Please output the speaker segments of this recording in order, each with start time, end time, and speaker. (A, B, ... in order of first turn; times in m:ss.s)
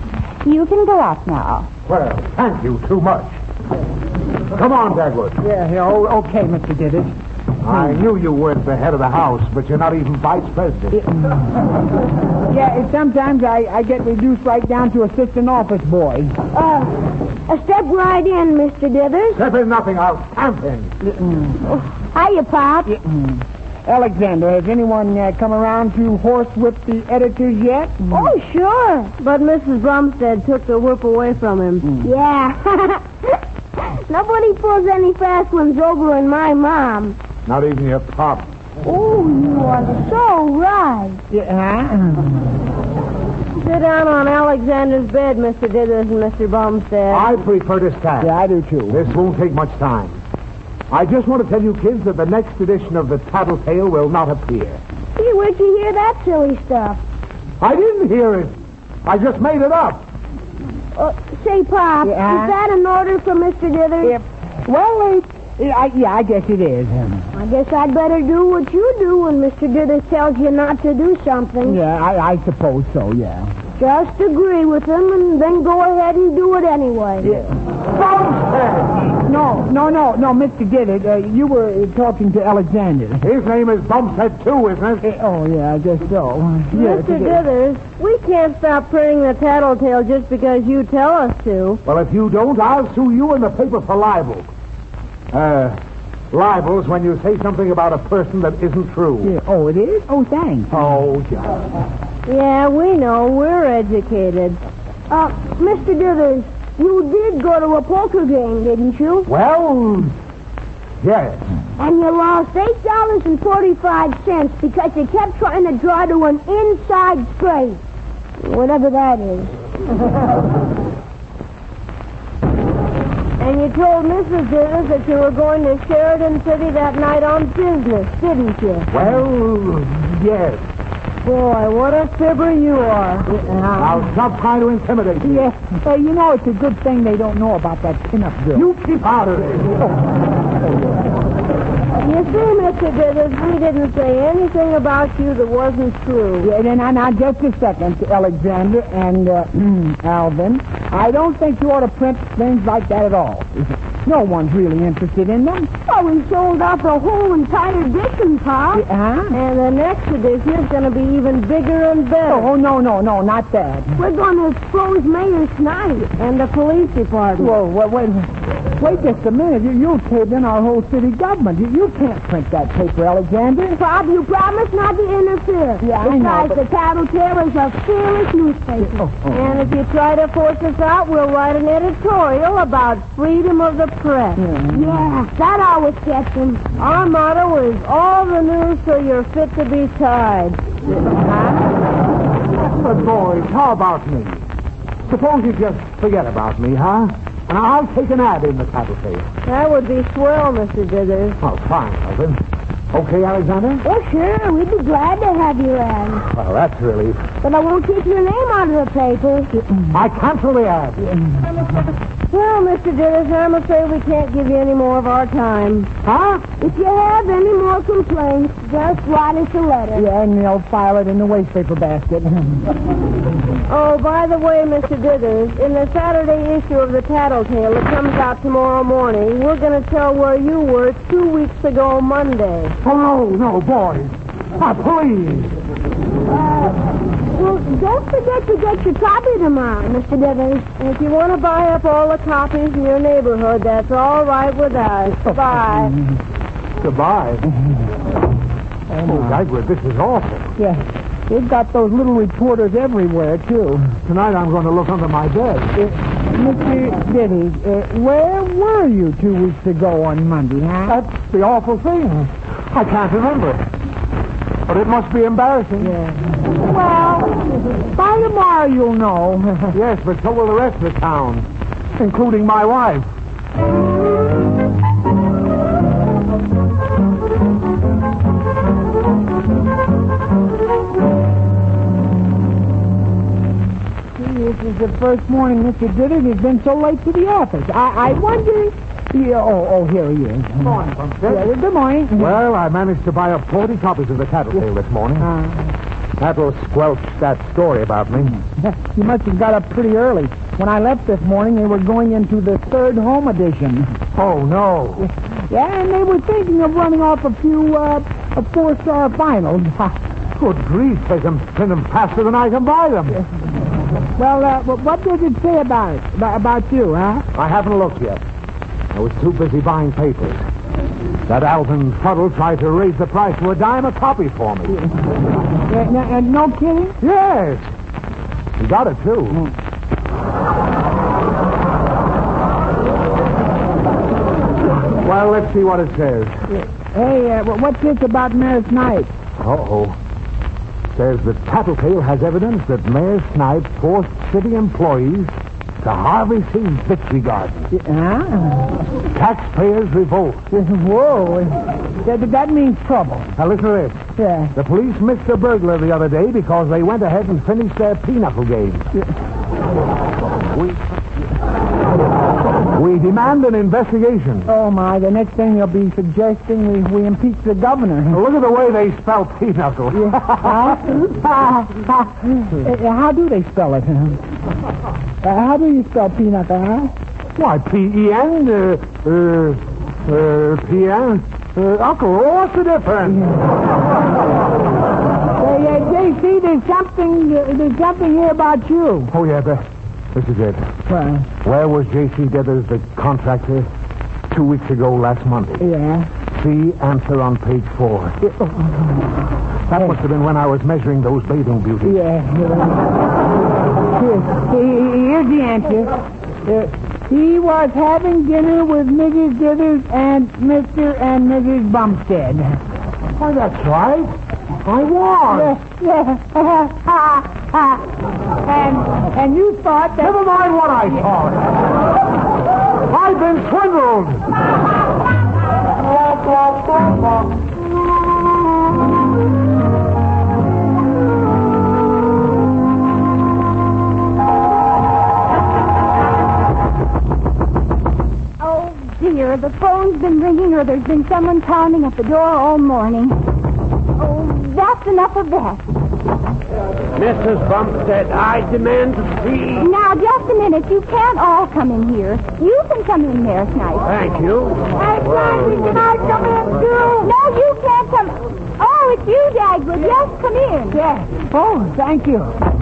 0:00.4-0:01.7 A
0:01.9-0:03.4 B
0:04.5-0:05.4 B
0:05.4-0:07.2 C
0:07.6-0:11.0 B
0:07.7-0:08.0 C
0:10.9-0:11.4 C
0:12.5-0:16.4 C
0:16.5-0:19.4 D
0:19.3-0:20.9 B
0:21.0-0:21.6 C
0:21.7-0:23.0 D
0:22.9-0:28.3 C
0:28.1-0:29.1 D
0:29.2-0:31.9 E
0:31.8-0:32.1 C
0:32.0-0:33.1 D
0:33.8-0:37.2 D
0:37.5-0:38.5 B
0:38.8-0:41.2 D
0:41.3-0:42.5 C
0:43.6-0:47.3 E
0:47.1-0:48.3 B
0:48.2-0:49.0 C
0:48.9-0:50.2 B
0:50.9-0:54.8 B
0:55.2-0:57.0 D
0:57.6-1:00.1 B
1:01.0-1:04.2 D
1:02.0-1:02.6 C
1:04.0-1:07.3 C
1:07.3-1:11.8 D
1:11.6-1:13.5 C
1:13.8-1:17.3 D
1:17.2-1:17.5 C
1:17.9-1:19.2 B
1:19.2-1:23.2 C
1:23.2-1:25.1 B
1:25.0-1:27.4 C
1:26.7-1:31.8 E
1:31.8-1:34.5 B
1:35.3-1:35.8 B
1:36.3-1:39.3 B
1:39.2-1:40.9 C
1:40.7-1:41.6 B
1:42.3-1:44.6 E
1:45.1-1:49.3 D
1:49.3-1:50.1 B
1:51.0-1:51.5 B
1:51.8-1:57.8 D
1:58.4-1:59.6 D
2:03.4-2:08.9 E
2:08.9-2:10.6 B
2:11.2-2:13.4 E
2:13.3-2:14.1 C
2:13.8-2:15.5 B
2:15.2-2:18.7 C
2:18.5-2:19.8 B
2:22.0-2:26.5 E
2:26.4-2:35.7 C
2:35.9-2:38.8 D
2:38.7-2:39.4 C
2:39.3-2:42.5 E
2:42.3-2:44.0 C
2:44.0-2:46.1 D
2:46.2-2:47.5 E
2:47.4-2:53.8 C
2:53.8-2:59.1 D
2:55.8-2:56.6 C
2:59.0-2:59.6 C
2:59.3-3:04.4 E
3:04.4-3:04.9 C
3:04.7-3:06.6 D
3:06.8-3:10.6 E
3:11.2-3:11.5 C
3:12.8-3:14.5 B
3:15.1-3:19.3 B
3:19.5-3:21.4 E
3:21.4-3:22.4 B
3:22.9-3:23.8 B
3:23.8-3:26.2 D
3:26.3-3:27.2 B
3:27.4-3:29.5 D
3:29.9-3:31.1 B
3:32.3-3:35.9 E
3:36.1-3:36.4 B
3:36.6-3:40.1 D
3:39.9-3:42.7 C
3:43.7-3:52.8 E
3:52.8-3:55.6 B
3:57.3-4:00.8 D
4:00.8-4:06.0 E
4:06.8-4:07.5 B
4:09.0-4:09.4 C
4:09.0-4:10.5 B
4:10.6-4:13.9 C
4:14.0-4:15.7 B
4:15.8-4:21.0 C
4:20.9-4:23.6 B
4:24.7-4:26.0 B
4:25.8-4:29.8 C
4:29.7-4:33.1 B
4:44.2-4:52.4 C
4:50.6-4:51.5 B
4:52.2-4:55.3 B
4:55.2-4:55.7 C
4:56.2-4:58.4 B
4:58.6-5:04.0 C
5:04.1-5:05.1 B
5:05.0-5:10.0 C
5:10.4-5:13.2 B
5:14.2-5:17.3 C
5:17.3-5:18.2 B
5:18.9-5:20.4 B
5:21.3-5:24.8 B
5:25.7-5:27.0 C
5:27.0-5:27.7 B
5:28.6-5:29.4 B
5:35.0-5:36.4 B
5:36.5-5:39.1 C
5:39.4-5:40.0 B
5:40.9-5:47.7 B
5:47.7-5:48.8 C
5:49.1-5:50.4 B
5:50.5-5:53.3 C
5:53.4-5:54.0 B
5:54.2-5:54.5 C
5:54.5-5:58.9 B
6:02.7-6:04.5 B
6:04.5-6:08.2 C
6:08.1-6:11.0 B
6:09.9-6:14.2 C
6:15.2-6:16.9 C
6:17.4-6:23.2 B
6:25.4-6:29.1 C
6:29.1-6:30.7 B
6:30.9-6:31.3 C
6:31.4-6:33.7 B
6:34.3-6:35.7 B
6:35.6-6:36.1 C
6:36.3-6:38.2 B
6:38.2-6:39.0 C
6:39.7-6:42.0 B
6:41.8-6:42.9 C
6:43.9-6:52.6 C
6:53.2-6:55.6 B
6:55.3-6:57.9 C
6:58.4-7:00.2 C
7:00.0-7:01.5 B
7:02.9-7:04.3 B
7:18.4-7:23.2 A
7:24.0-7:25.7 A
7:27.0-7:29.7 F
7:29.6-7:33.9 A
7:33.8-7:35.9 F
7:34.8-7:37.1 D
7:37.0-7:40.8 A
7:40.7-7:42.4 C